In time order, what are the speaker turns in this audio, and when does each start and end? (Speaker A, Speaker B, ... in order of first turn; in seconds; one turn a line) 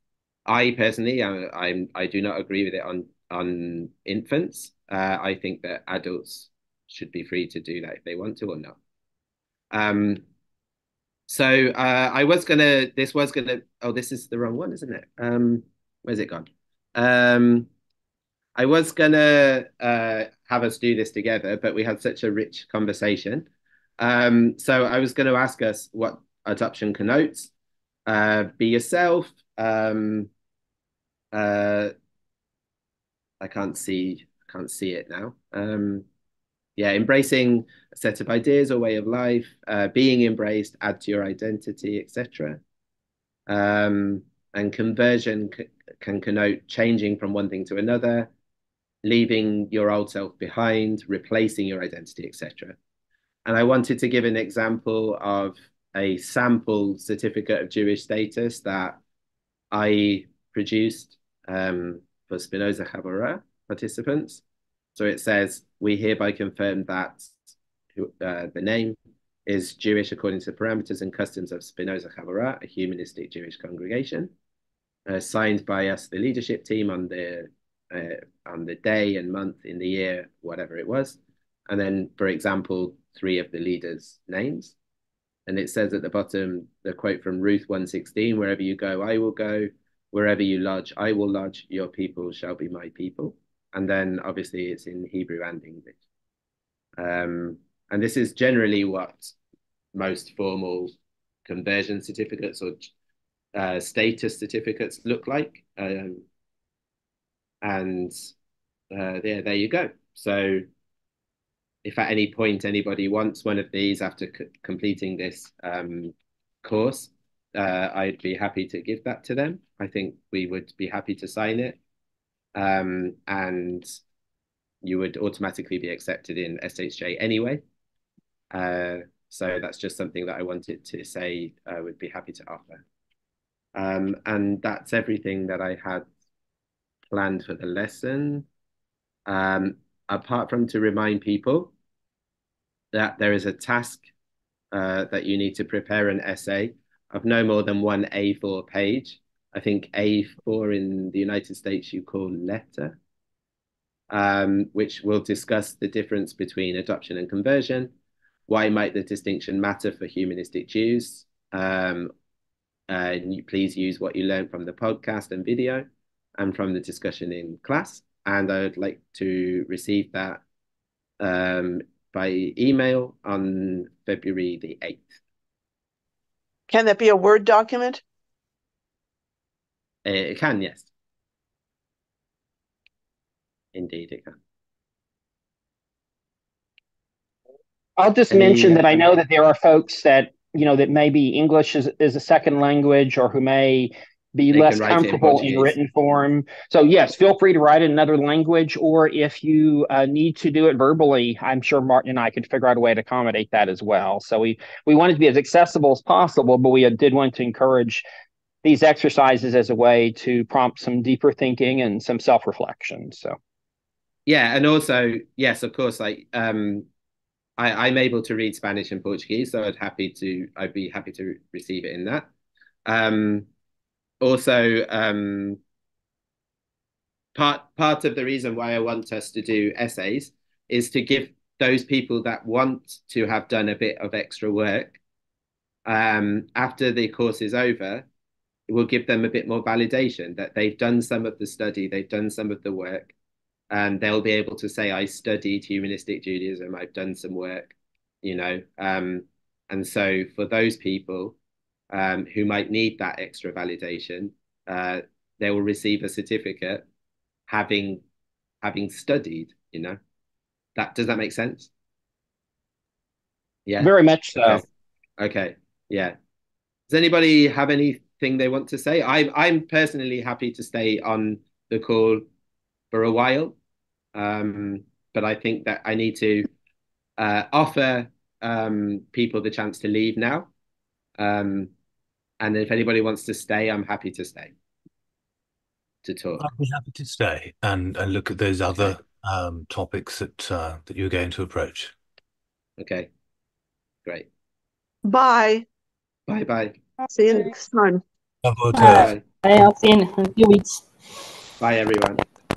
Speaker A: 0.5-8.8
Speaker A: 9.7-10.2
Speaker A: 11.3-17.7
Speaker A: 18.6-23.5
Speaker A: 24.0-27.5
Speaker A: 28.1-30.3
Speaker A: 31.3-31.9
Speaker A: 33.4-36.0
Speaker A: 36.8-42.6
Speaker A: 43.5-48.3
Speaker A: 49.0-52.8
Speaker A: 53.5-59.0
Speaker A: 59.7-64.4
Speaker A: 65.0-74.3
Speaker A: 75.1-84.7
Speaker A: 85.5-96.0
Speaker A: 97.0-99.3
Speaker A: 99.9-100.9
Speaker A: 101.5-102.9
Speaker A: 103.5-106.2
Speaker A: 107.6-108.3
Speaker A: 108.9-110.6
Speaker A: 111.8-121.8
Speaker A: 122.5-124.0
Speaker A: 124.8-127.6
Speaker A: 128.5-132.8
Speaker A: 133.7-136.1
Speaker A: 137.1-138.4
Speaker A: 139.3-141.7
Speaker A: 142.9-144.1
Speaker A: 144.7-153.0
Speaker A: 154.1-157.9
Speaker A: 158.5-162.1
Speaker A: 162.9-165.9
Speaker A: 166.4-170.4
Speaker A: 171.2-175.2
Speaker B: 176.7-178.0
Speaker A: 180.0-180.9
Speaker A: 183.7-184.4
Speaker C: 188.0-208.0
Speaker A: 188.3-189.1
Speaker A: 194.5-195.7
Speaker C: 208.6-213.4
Speaker A: 214.3-216.9
Speaker A: 217.6-222.3
Speaker A: 222.8-223.5
Speaker A: 224.2-225.6
Speaker A: 227.3-235.0
Speaker A: 235.8-238.1
Speaker A: 238.7-243.1
Speaker A: 243.7-251.3
Speaker A: 251.9-256.9
Speaker A: 257.5-258.0
Speaker A: 258.6-260.0
Speaker A: 260.8-261.7
Speaker A: 263.6-264.6
Speaker C: 263.8-264.6
Speaker A: 265.2-266.1
Speaker A: 266.9-272.2
Speaker A: 272.9-273.6
Speaker A: 274.1-276.5
Speaker A: 277.2-280.5
Speaker A: 281.2-281.7
Speaker A: 282.4-284.5
Speaker A: 286.0-286.4
Speaker D: 286.4-291.9
Speaker A: 292.8-293.1
Speaker B: 295.0-295.6
Speaker A: 296.3-296.8
Speaker B: 297.1-298.0
Speaker E: 297.2-297.9
Speaker D: 298.4-299.1
Speaker E: 298.7-300.8
Speaker A: 298.9-299.2
Speaker A: 301.6-302.2